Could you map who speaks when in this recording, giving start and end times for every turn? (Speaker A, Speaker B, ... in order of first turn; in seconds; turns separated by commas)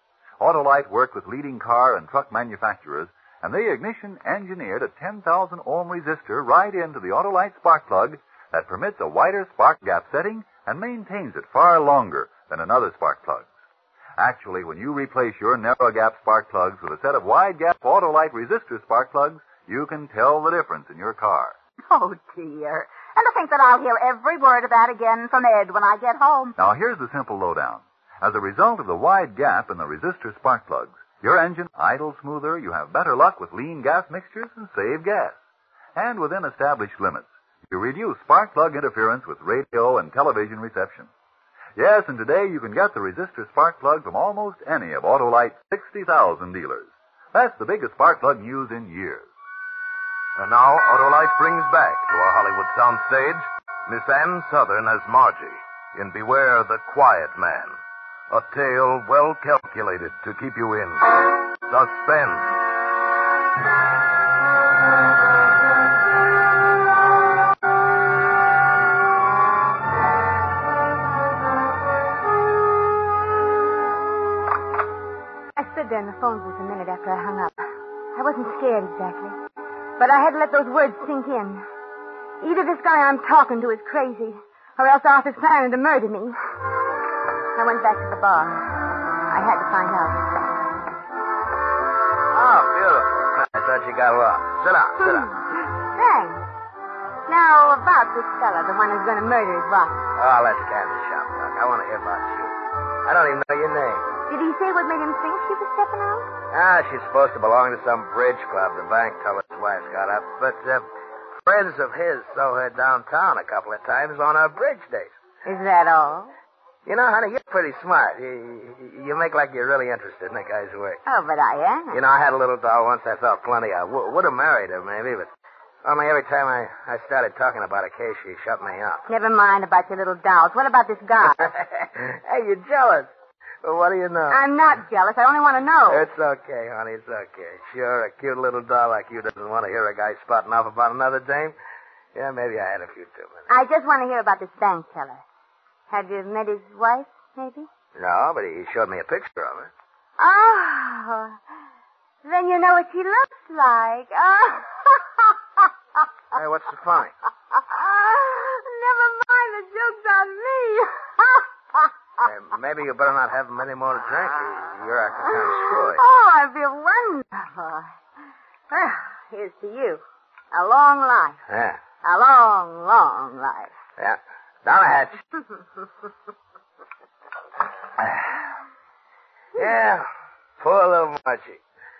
Speaker A: 0.4-13.5, Speaker A: 14.2-21.6, Speaker B: 21.9-26.5, Speaker A: 26.6-35.4, Speaker A: 35.9-41.1, Speaker A: 41.8-49.3, Speaker C: 50.4-57.8, Speaker C: 58.3-61.1, Speaker C: 61.7-62.5, Speaker D: 75.5-79.4, Speaker D: 80.0-81.6, Speaker D: 82.4-86.4, Speaker D: 87.5-88.7, Speaker D: 89.3-90.4, Speaker E: 92.3-95.3, Speaker D: 95.0-96.4, Speaker D: 97.3-100.0, Speaker E: 100.2-104.1, Speaker D: 104.3-106.3, Speaker E: 106.5-110.8, Speaker E: 111.4-115.1, Speaker D: 115.5-116.3, Speaker E: 116.8-121.0, Speaker D: 121.0-122.0, Speaker E: 121.9-125.3, Speaker E: 125.8-129.0, Speaker D: 129.1-131.5, Speaker E: 131.4-133.1, Speaker E: 133.6-134.4, Speaker D: 134.3-136.1, Speaker E: 135.9-141.5, Speaker E: 142.1-143.5, Speaker D: 143.5-145.2, Speaker D: 145.9-147.7, Speaker E: 147.9-149.7, Speaker D: 150.2-151.4, Speaker D: 152.2-155.3, Speaker E: 156.3-157.1, Speaker D: 157.7-161.4, Speaker E: 162.2-166.0, Speaker D: 165.6-167.9, Speaker D: 168.7-171.4, Speaker E: 171.5-171.8, Speaker D: 172.0-173.7, Speaker E: 174.0-175.2, Speaker E: 179.5-180.1, Speaker E: 180.6-181.6